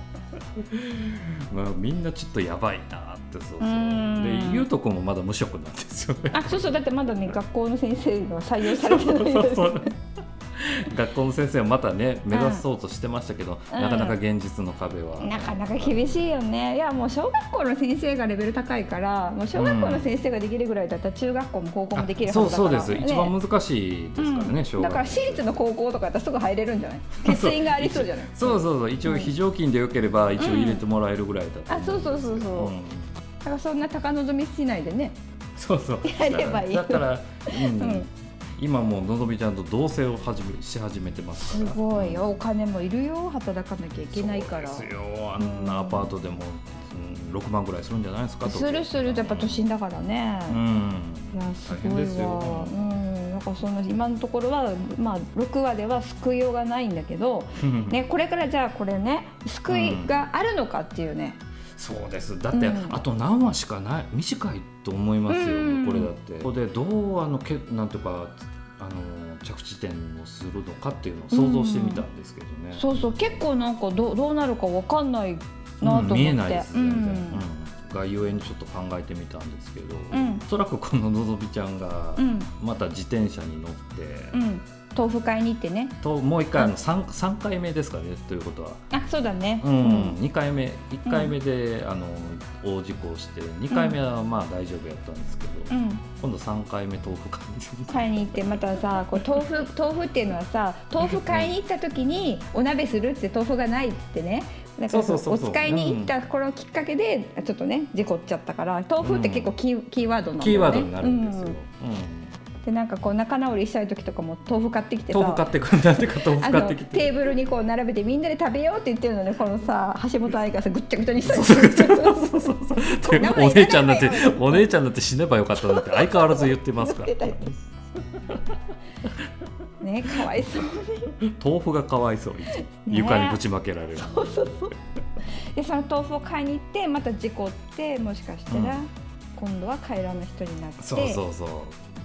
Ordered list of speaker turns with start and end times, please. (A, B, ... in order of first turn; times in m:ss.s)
0:00.6-0:06.7 A
0:03.6-0:04.7 B
0:06.3-0:09.9 B
0:08.6-0:09.9 A
0:10.5-0:16.2 A
0:12.3-0:12.6 B
0:13.7-0:14.2 B
0:15.2-0:23.3 B
0:19.5-0:20.1 A
0:21.9-0:25.6 A
0:24.2-0:29.3 B
0:27.2-0:33.1 A
0:30.4-0:30.8 B
0:31.7-0:32.7 B
0:33.4-0:35.2 B
0:35.6-0:42.2 A
0:36.0-0:38.1 B
0:41.4-0:44.9 B
0:44.1-0:49.6 A
0:45.4-0:46.1 B
0:48.4-0:50.6 B
0:50.5-0:52.8 A
0:51.3-1:01.4 B
0:57.6-0:58.0 A
0:59.7-1:00.1 A
1:01.8-1:13.4 A
1:02.5-1:03.0 B
1:05.3-1:06.1 B
1:11.3-1:12.0 B
1:12.7-1:17.4 B
1:15.8-1:24.4 A
1:20.1-1:20.4 B
1:22.2-1:22.5 B
1:24.3-1:26.0 B
1:26.0-1:28.8 A
1:28.9-1:30.2 B
1:29.6-1:39.4 A
1:31.0-1:31.3 B
1:35.7-1:36.0 B
1:37.9-1:51.6 B
1:41.0-1:41.5 A
1:44.9-1:46.1 A
1:49.0-1:49.5 A
1:50.4-1:52.3 A
1:52.6-1:55.4 B
1:55.1-1:57.1 A
1:56.2-2:04.7 B
2:01.2-2:07.6 A
2:05.6-2:07.5 B
2:09.8-2:11.1 B
2:11.2-2:14.5 A
2:12.8-2:13.4 B
2:14.0-2:14.7 B
2:15.5-2:21.2 B
2:18.5-2:18.8 A
2:20.8-2:21.8 A